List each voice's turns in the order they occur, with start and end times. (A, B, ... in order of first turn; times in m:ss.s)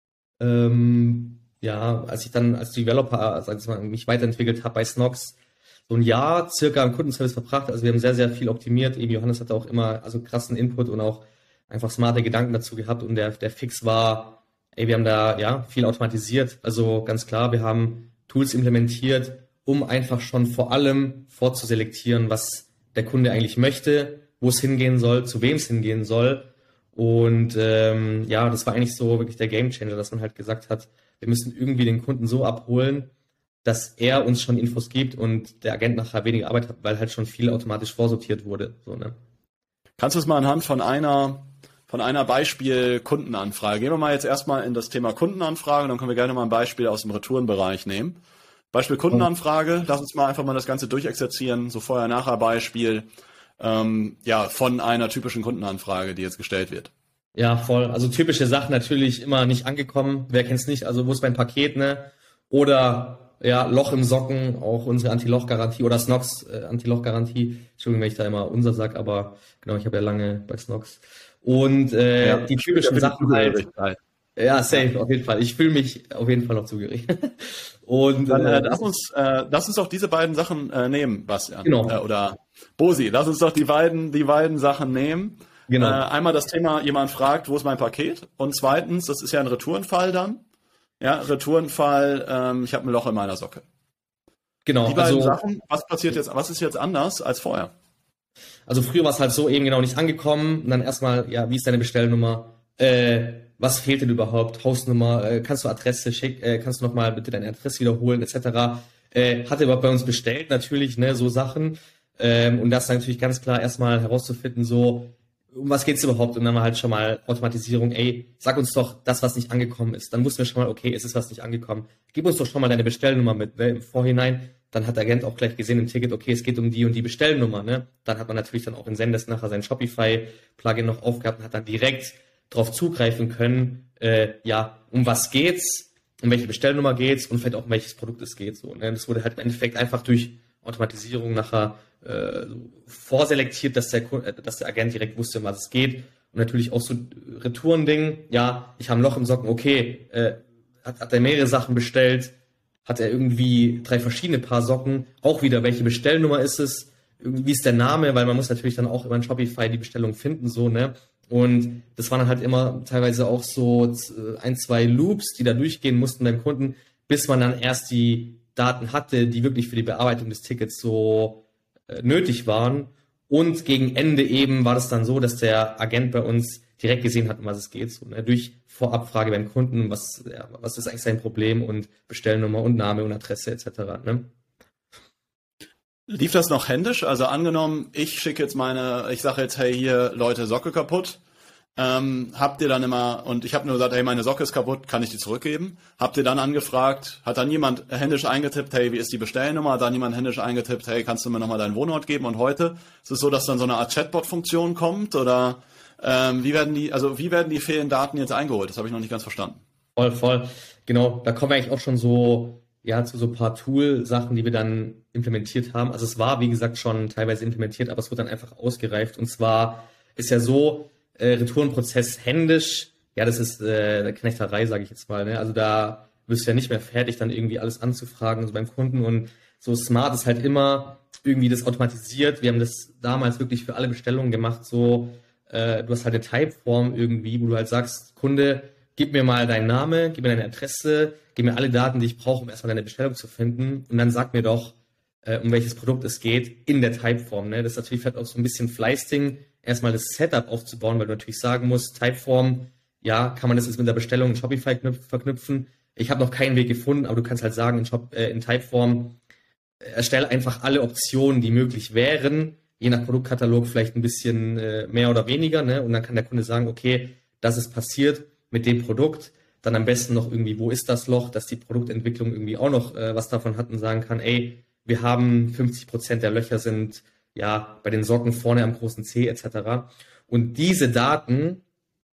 0:00.4-0:05.4 A
0:05.9-0:33.1 A
0:33.6-0:39.2 A
0:40.0-0:48.2 B
0:48.7-0:53.1 B
0:53.6-0:56.9 B
0:57.4-1:13.6 A
1:12.2-1:14.0 B
1:14.4-1:18.8 A
1:18.3-1:30.4 B
1:21.6-1:22.0 A
1:25.7-1:26.0 A
1:31.0-1:33.6 B
1:34.6-1:35.4 A
1:34.9-1:37.7 B
1:38.7-2:32.3 A
2:32.9-3:04.3 A
3:06.1-3:11.2 B
3:11.8-3:29.6 B
3:30.0-4:19.2 A
4:19.8-4:41.6 A